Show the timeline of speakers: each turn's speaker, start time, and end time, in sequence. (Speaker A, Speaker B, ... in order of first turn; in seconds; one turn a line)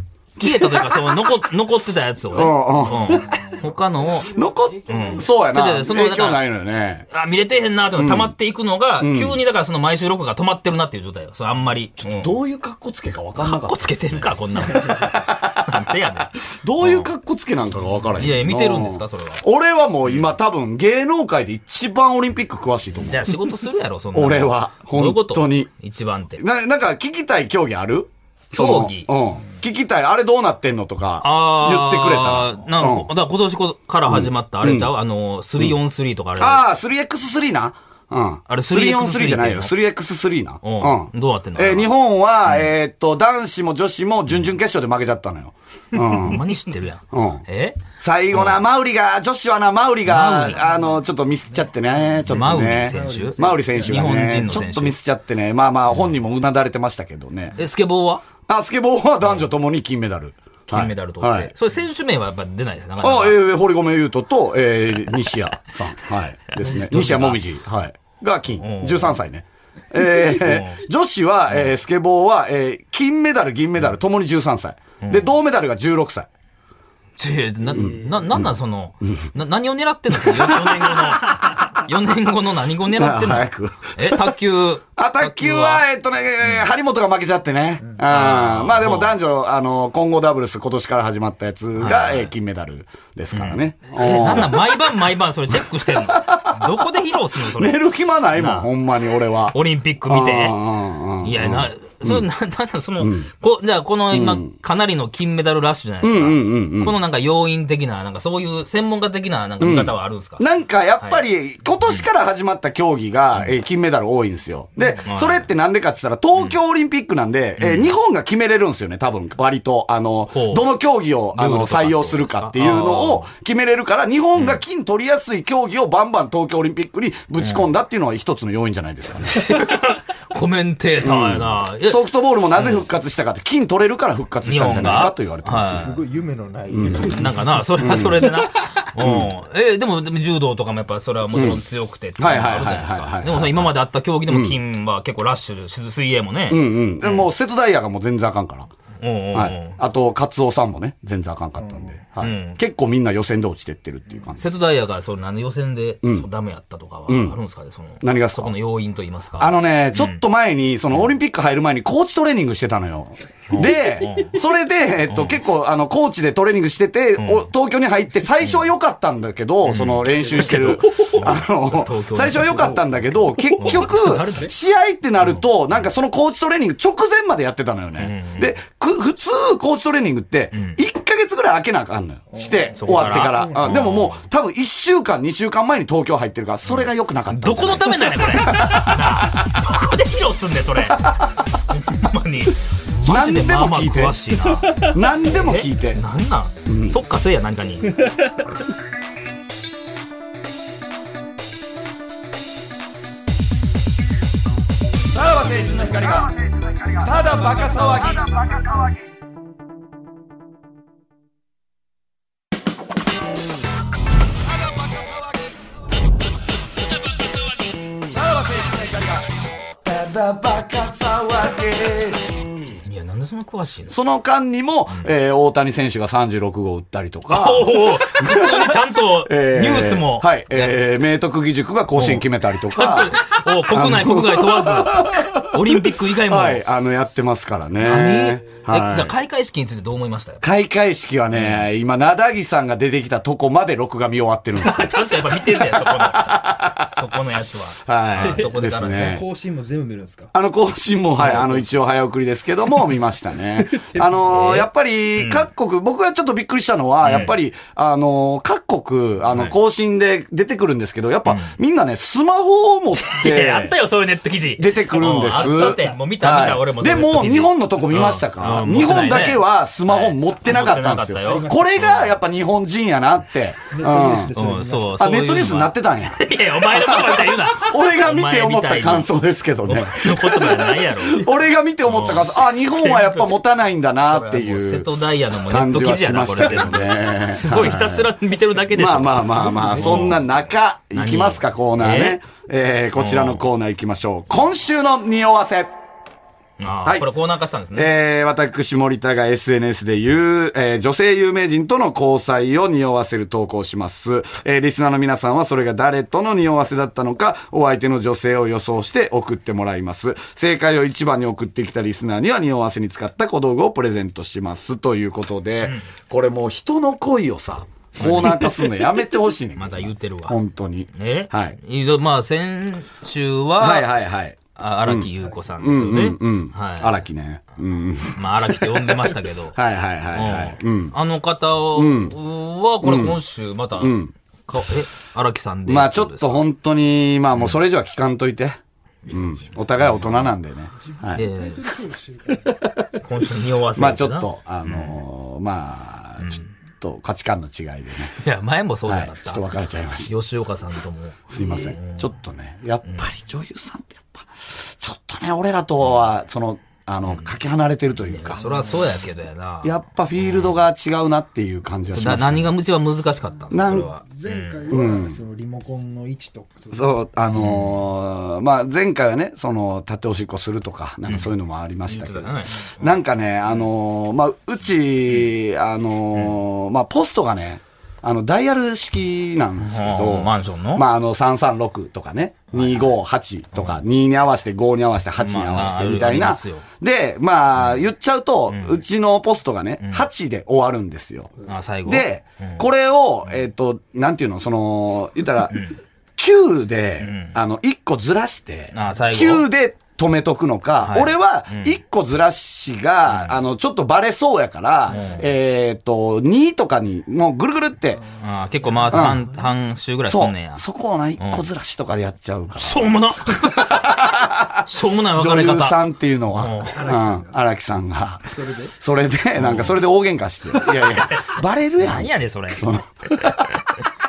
Speaker A: 0.4-4.3
Speaker B: 0.4-1.1
Speaker B: 2.3-3.3
Speaker B: 4.2-7.0
Speaker A: 4.8-6.4
Speaker A: 7.1-12.3
Speaker B: 8.0-8.3
Speaker B: 9.0-9.4
Speaker B: 12.0-15.8
Speaker A: 13.4-17.1
Speaker B: 16.4-23.4
Speaker A: 18.1-19.4
Speaker A: 23.0-26.4
Speaker B: 24.1-25.7
Speaker B: 26.4-33.1
Speaker A: 28.5-29.1
Speaker A: 31.2-36.6
Speaker B: 34.1-34.9
Speaker B: 36.4-46.5
Speaker A: 38.5-39.7
Speaker A: 40.6-41.9
Speaker A: 42.5-42.7
Speaker A: 46.0-48.6
Speaker B: 47.1-47.4
Speaker B: 48.0-57.5
Speaker A: 50.0-50.6
Speaker C: 50.6-51.0
Speaker C: 51.7-54.5
Speaker A: 52.2-55.0
Speaker A: 57.5-58.2
Speaker B: 58.5-61.5
Speaker A: 60.7-63.4
Speaker B: 63.0-76.3
Speaker A: 66.5-67.4
Speaker A: 68.6-69.2
Speaker A: 70.3-70.8
Speaker A: 75.0-75.3
Speaker A: 77.2-85.8
Speaker C: 77.7-78.2
Speaker B: 77.8-78.5
Speaker B: 79.0-79.3
Speaker B: 80.1-81.6
Speaker B: 82.9-84.4
Speaker B: 85.0-94.9
Speaker A: 88.0-89.2
Speaker A: 91.8-92.3
Speaker A: 93.3-97.8
Speaker B: 95.7-96.8
Speaker B: 97.4-102.2
Speaker A: 98.3-98.7
Speaker A: 99.5-100.6
Speaker A: 101.2-110.4
Speaker B: 103.0-103.3
Speaker B: 104.1-104.5
Speaker B: 106.0-107.0
Speaker B: 109.6-129.6
Speaker A: 114.8-115.5
Speaker A: 117.6-117.9
Speaker A: 120.3-120.7
Speaker A: 121.3-123.3
Speaker A: 127.4-127.7
Speaker A: 129.3-132.0
Speaker B: 131.0-135.8
Speaker A: 132.5-132.8
Speaker A: 134.4-135.9
Speaker C: 135.6-138.4
Speaker B: 136.7-137.2
Speaker A: 137.0-147.3
Speaker B: 137.8-138.2
Speaker B: 139.0-139.3
Speaker B: 141.3-141.6
Speaker B: 142.2-143.7
Speaker B: 144.3-144.6
Speaker B: 146.5-148.7
Speaker A: 149.0-149.8
Speaker B: 149.3-154.4
Speaker C: 151.6-151.9
Speaker A: 152.2-152.6
Speaker A: 154.4-160.2
Speaker B: 157.1-157.4
Speaker B: 158.0-158.5
Speaker B: 159.4-189.4
Speaker A: 163.5-164.4
Speaker A: 165.1-165.4
Speaker A: 167.2-167.5
Speaker A: 169.6-172.8
Speaker C: 170.3-171.2
Speaker C: 172.5-172.8
Speaker C: 173.3-173.7
Speaker A: 173.6-174.5
Speaker A: 178.0-178.5
Speaker A: 180.5-180.8
Speaker C: 182.3-184.0
Speaker A: 182.7-184.2
Speaker A: 186.7-198.0
Speaker B: 193.0-194.2
Speaker C: 194.6-194.9
Speaker B: 194.8-196.0
Speaker B: 196.7-197.0
Speaker C: 198.0-198.4
Speaker B: 205.1-206.3
Speaker B: 206.9-208.4
Speaker B: 214.5-215.5
Speaker B: 218.0-222.5
Speaker A: 222.8-223.9
Speaker B: 223.9-233.1
Speaker A: 227.3-230.7
Speaker A: 231.9-236.6
Speaker B: 233.7-239.1
Speaker A: 237.8-240.4
Speaker B: 240.4-245.1
Speaker A: 241.3-241.7
Speaker A: 244.6-249.2
Speaker B: 245.8-246.9
Speaker B: 247.8-249.2
Speaker C: 248.2-250.3
Speaker B: 250.3-263.8
Speaker C: 251.2-251.7
Speaker C: 253.6-254.5
Speaker A: 254.3-255.5
Speaker A: 257.0-257.4
Speaker A: 259.3-259.5
Speaker A: 261.3-261.6
Speaker A: 263.0-272.1
Speaker B: 264.6-274.3
Speaker C: 271.2-272.1
Speaker C: 273.7-275.1
Speaker A: 274.3-279.1
Speaker B: 275.0-284.9
Speaker A: 279.7-281.3
Speaker A: 281.9-283.3
Speaker A: 284.1-290.2
Speaker B: 285.4-288.1
Speaker B: 288.7-295.7
Speaker C: 289.4-290.1
Speaker A: 290.9-292.2
Speaker A: 292.9-293.4
Speaker A: 296.6-297.9
Speaker B: 297.7-321.6
Speaker A: 318.0-318.7
Speaker A: 319.5-320.4
Speaker A: 320.9-323.9
Speaker B: 323.6-330.9
Speaker A: 324.6-327.0
Speaker A: 328.1-329.6
Speaker A: 330.1-333.9
Speaker B: 331.7-332.1
Speaker B: 332.8-333.2
Speaker B: 333.8-334.1
Speaker A: 334.5-336.4
Speaker B: 335.7-341.2
Speaker A: 339.8-340.2
Speaker C: 340.8-342.6
Speaker A: 341.1-341.7
Speaker A: 343.0-345.0
Speaker B: 343.7-348.2
Speaker A: 346.2-346.5
Speaker A: 348.2-349.5
Speaker B: 348.9-350.1
Speaker A: 350.1-352.1
Speaker B: 351.3-358.4
Speaker A: 358.0-360.6
Speaker C: 358.4-358.9
Speaker B: 359.6-362.5
Speaker A: 361.9-364.6
Speaker B: 363.5-363.9
Speaker C: 363.5-367.0
Speaker B: 364.7-365.2
Speaker B: 366.7-391.3
Speaker A: 367.3-367.8
Speaker A: 371.1-371.3
Speaker A: 371.9-373.0
Speaker A: 379.6-380.8
Speaker A: 382.5-382.9
Speaker A: 385.2-386.6
Speaker A: 387.6-387.8
Speaker A: 388.5-388.8
Speaker A: 389.8-390.1
Speaker A: 391.4-392.6
Speaker B: 391.9-395.6
Speaker A: 395.5-395.8
Speaker B: 396.2-408.0
Speaker A: 397.0-397.4
Speaker A: 398.7-399.4
Speaker A: 400.8-401.8
Speaker A: 403.1-403.4
Speaker A: 404.9-405.3
Speaker C: 408.0-409.1
Speaker A: 408.2-410.6
Speaker B: 408.9-409.2
Speaker B: 410.1-423.6
Speaker A: 411.2-411.4
Speaker A: 412.5-413.9
Speaker A: 414.6-416.8
Speaker C: 416.7-417.4
Speaker C: 418.2-418.7
Speaker A: 419.4-419.8
Speaker C: 420.5-420.9
Speaker A: 421.1-423.3